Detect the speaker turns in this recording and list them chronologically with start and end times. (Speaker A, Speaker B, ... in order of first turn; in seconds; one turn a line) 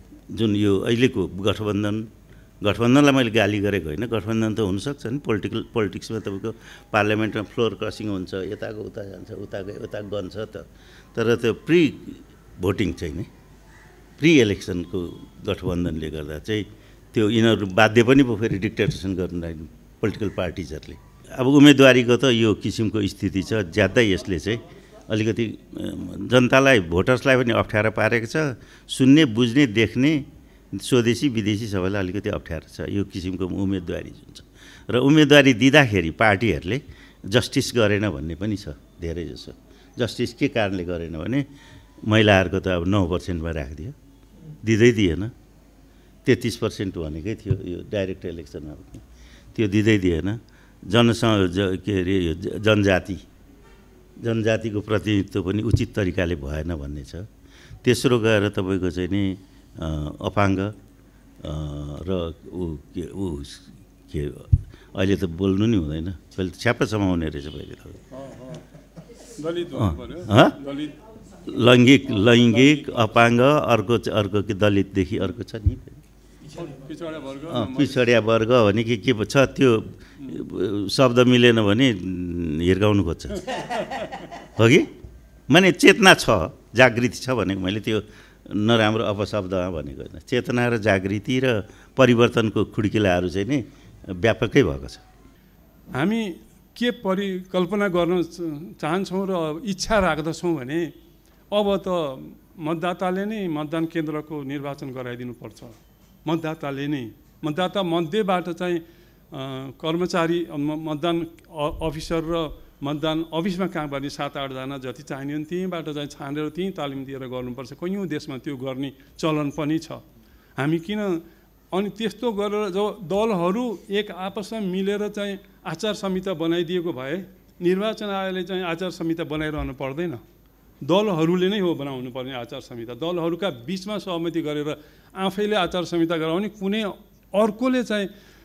Speaker A: 0.3-2.1
Speaker A: 2.6-13.3
Speaker A: 14.2-41.5
Speaker A: 42.0-44.0
Speaker A: 44.6-45.3
Speaker A: 46.2-53.2
Speaker A: 54.2-57.3
Speaker A: 57.8-60.7
Speaker A: 61.4-68.0
Speaker B: 68.1-68.6
Speaker B: 69.3-71.0
Speaker A: 69.8-70.6
Speaker A: 71.3-76.0
Speaker B: 72.3-73.0
Speaker B: 76.5-78.0
Speaker A: 77.5-83.8
Speaker A: 84.4-84.9
Speaker A: 85.5-95.0
Speaker B: 95.9-100.9
Speaker B: 101.5-120.0
Speaker B: 120.6-130.2
Speaker B: 130.8-138.1